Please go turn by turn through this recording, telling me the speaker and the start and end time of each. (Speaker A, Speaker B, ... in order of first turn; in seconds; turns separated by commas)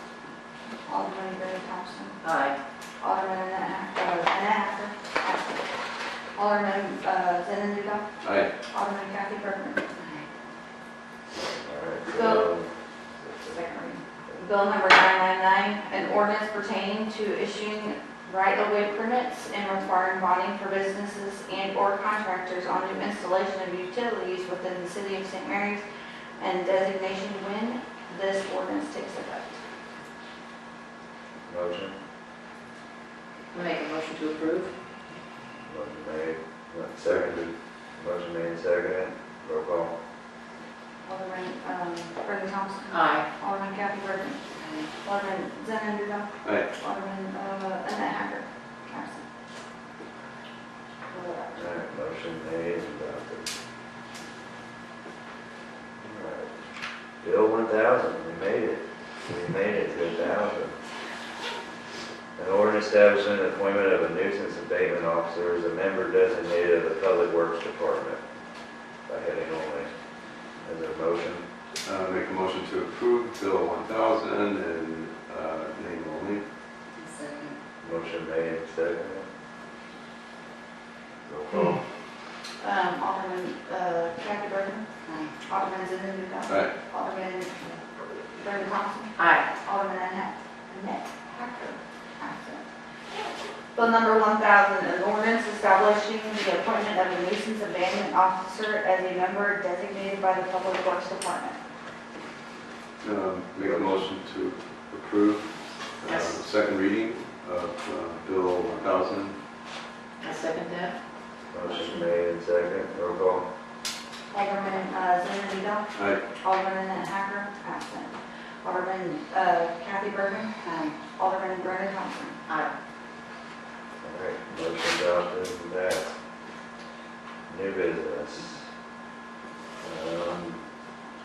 Speaker A: 0.9-2.2, Speaker B: 2.2-2.6, Speaker A: 3.0-5.7, Speaker A: 6.3-8.1, Speaker C: 8.2-8.5, Speaker A: 8.7-9.8, Speaker D: 11.4-12.7, Speaker A: 12.1-12.5, Speaker A: 13.4-25.8, Speaker A: 26.4-29.6, Speaker D: 31.5-32.0, Speaker B: 33.5-34.7, Speaker D: 35.7-39.9, Speaker C: 37.0-37.3, Speaker A: 41.0-44.4, Speaker B: 42.9-43.3, Speaker A: 45.0-49.2, Speaker C: 46.4-46.7, Speaker A: 51.1-51.6, Speaker D: 51.5-53.5, Speaker D: 56.0-56.5, Speaker D: 57.2-60.8, Speaker D: 62.4-68.2, Speaker D: 69.1-69.9, Speaker D: 70.7-71.4, Speaker C: 71.8-76.4, Speaker D: 77.8-79.3, Speaker D: 81.2-81.8, Speaker A: 82.6-84.9, Speaker A: 85.5-87.7, Speaker C: 86.5-86.7, Speaker A: 88.4-92.6, Speaker B: 89.2-89.5, Speaker A: 93.8-101.6, Speaker C: 103.0-109.4, Speaker D: 103.6-104.0, Speaker B: 110.2-110.9, Speaker D: 111.5-113.5, Speaker A: 114.3-122.4, Speaker C: 115.9-116.2, Speaker D: 124.0-126.1, Speaker D: 127.5-128.7, Speaker D: 129.8-130.6